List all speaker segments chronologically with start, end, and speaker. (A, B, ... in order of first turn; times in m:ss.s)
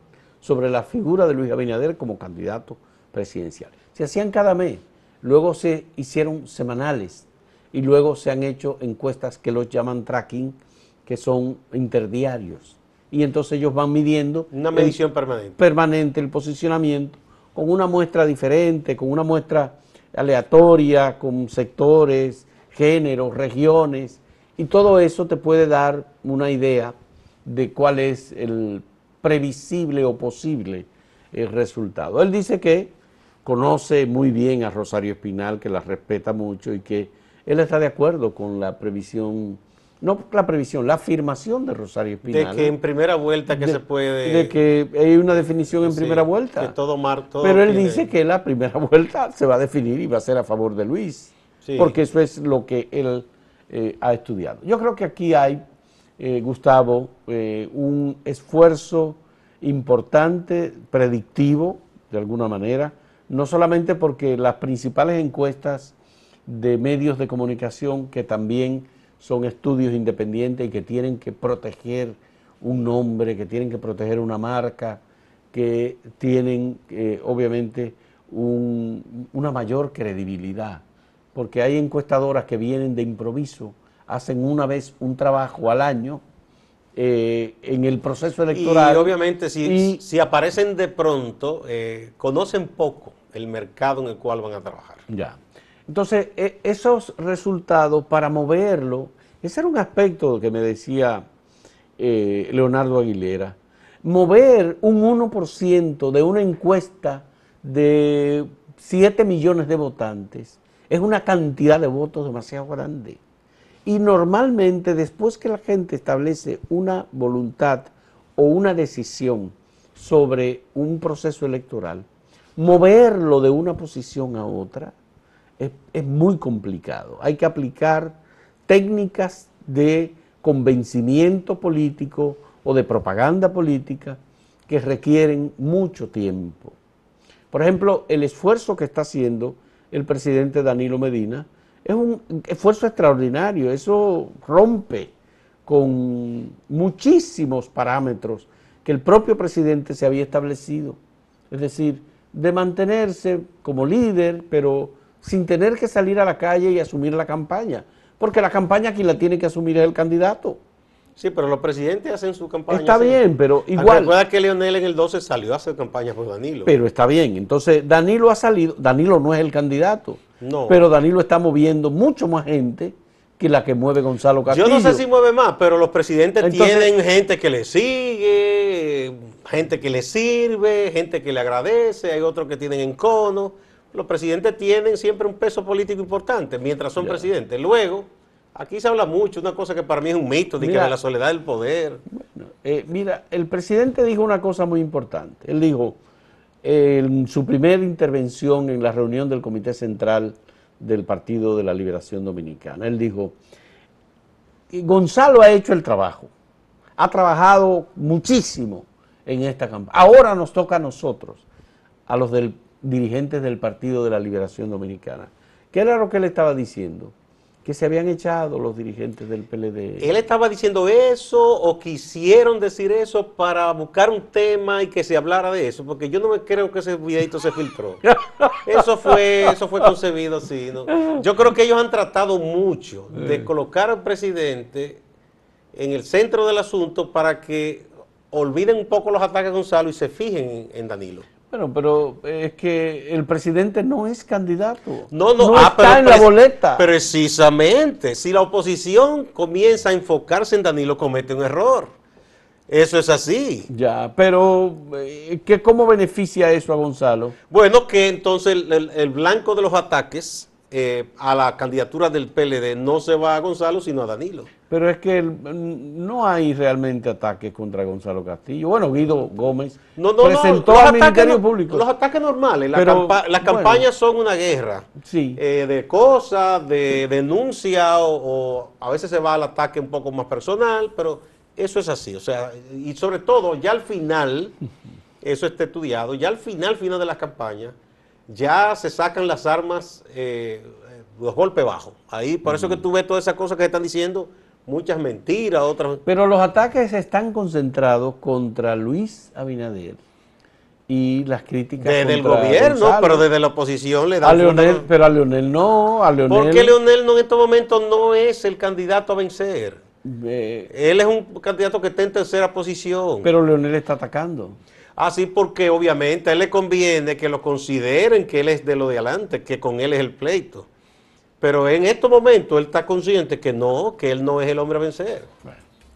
0:00.4-0:15.0 A
0:14.5-0:15.6 B
0:15.6-0:32.9 A
0:33.4-0:42.7 A
0:42.3-0:44.6 B
0:43.5-0:46.8 A
0:45.8-0:48.1 B
0:47.4-0:55.6 A
0:51.6-0:52.0 B
0:56.2-1:05.9 A
1:06.5-1:15.0 A
1:15.5-1:20.8 A
1:21.3-1:26.2 A
1:27.0-1:29.1 A
1:28.5-1:35.0 B
1:29.6-1:30.0 A
1:35.1-1:41.2 A
1:42.0-1:53.2 A
1:53.8-2:05.0 A
2:05.6-2:16.8 A
2:17.5-2:25.1 A
2:25.6-2:31.0 A
2:31.5-2:40.6 A
2:41.2-2:43.2 B
2:42.7-2:44.1 A
2:43.8-2:46.7 B
2:46.7-2:55.0 A
2:50.4-2:50.8 B
2:54.5-3:12.0 B
2:56.4-2:56.9 A
3:07.0-3:07.3 A
3:10.6-3:11.0 A
3:12.1-3:16.0 A
3:16.6-3:23.4 A
3:24.7-3:26.3 A
3:27.0-3:31.4 A
3:32.1-3:37.1 A
3:37.6-3:40.2 A
3:40.0-3:48.1 B
3:48.0-3:49.5 A
3:48.6-3:55.0 B
3:50.9-3:51.2 A
3:53.2-3:53.5 A
3:55.7-4:01.3 B
4:01.5-4:06.9 A
4:05.1-4:11.9 B
4:12.7-4:13.7 B
4:13.7-4:17.4 A
4:17.5-4:24.5 B
4:24.7-4:31.9 A
4:30.0-4:44.6 B
4:32.7-4:33.9 A
4:35.0-4:35.4 A
4:45.2-4:47.8 B
4:48.3-4:56.0 B
4:52.5-4:52.8 A
4:56.1-5:00.0 A
5:00.9-5:03.2 A
5:01.8-5:04.9 B
5:04.2-5:06.8 A
5:06.3-5:09.8 B
5:10.0-5:10.7 A
5:10.7-5:13.3 B
5:13.2-5:14.6 A
5:15.0-5:20.7 B
5:21.4-5:25.3 B